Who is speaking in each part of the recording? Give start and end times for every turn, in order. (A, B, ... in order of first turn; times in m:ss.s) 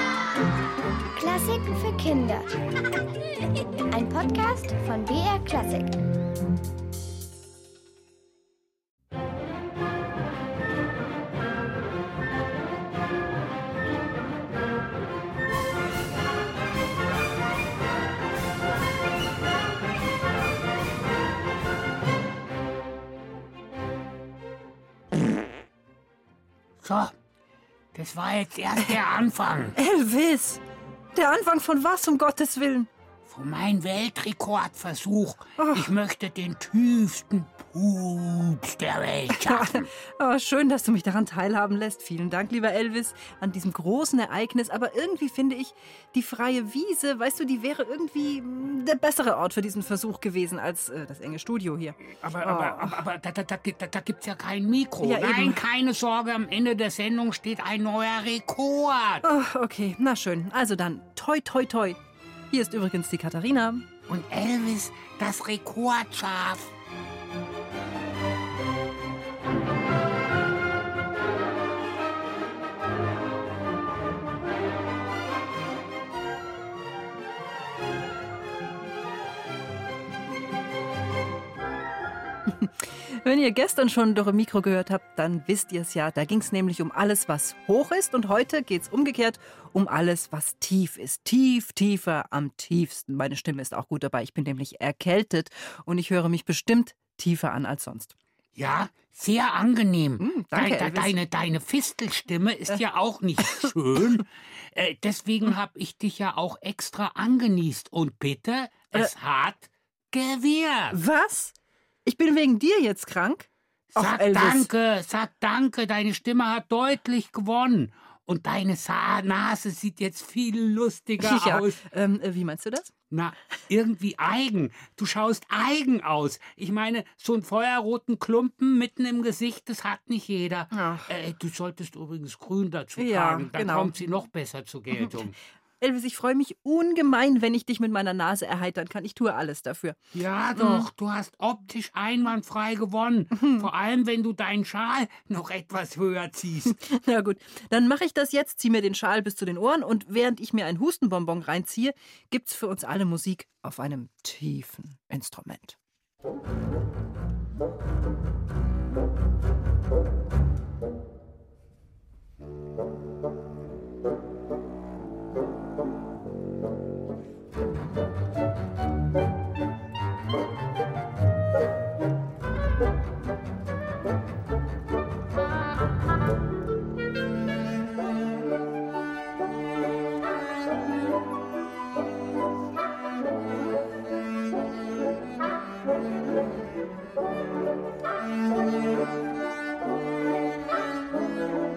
0:01.2-0:02.5 A
0:03.9-0:05.9 A
0:26.8-0:27.1 B
0:27.9-0:29.7 B
0:29.8-0:30.6 C
0:31.2-0:32.9 C
0:33.3-0:39.9 B
0:35.6-0:35.9 C
0:39.4-0:53.0 C
0:52.3-0:59.2 B
0:55.0-0:55.6 C
0:59.2-1:02.0 C
1:02.5-1:03.9 C
1:04.1-1:06.7 B
1:22.5-1:38.1 C
1:38.6-1:51.0 B
1:40.2-1:41.2 C
1:50.9-1:51.5 C
1:52.1-1:54.7 C
1:54.0-2:01.8 B
2:01.2-2:02.9 C
2:03.1-2:15.4 B
2:10.7-2:11.1 C
2:13.0-2:13.9 C
2:14.9-2:20.0 C
2:20.2-2:26.8 B
2:20.6-2:20.9 C
2:23.3-2:23.7 C
2:26.8-2:35.8 C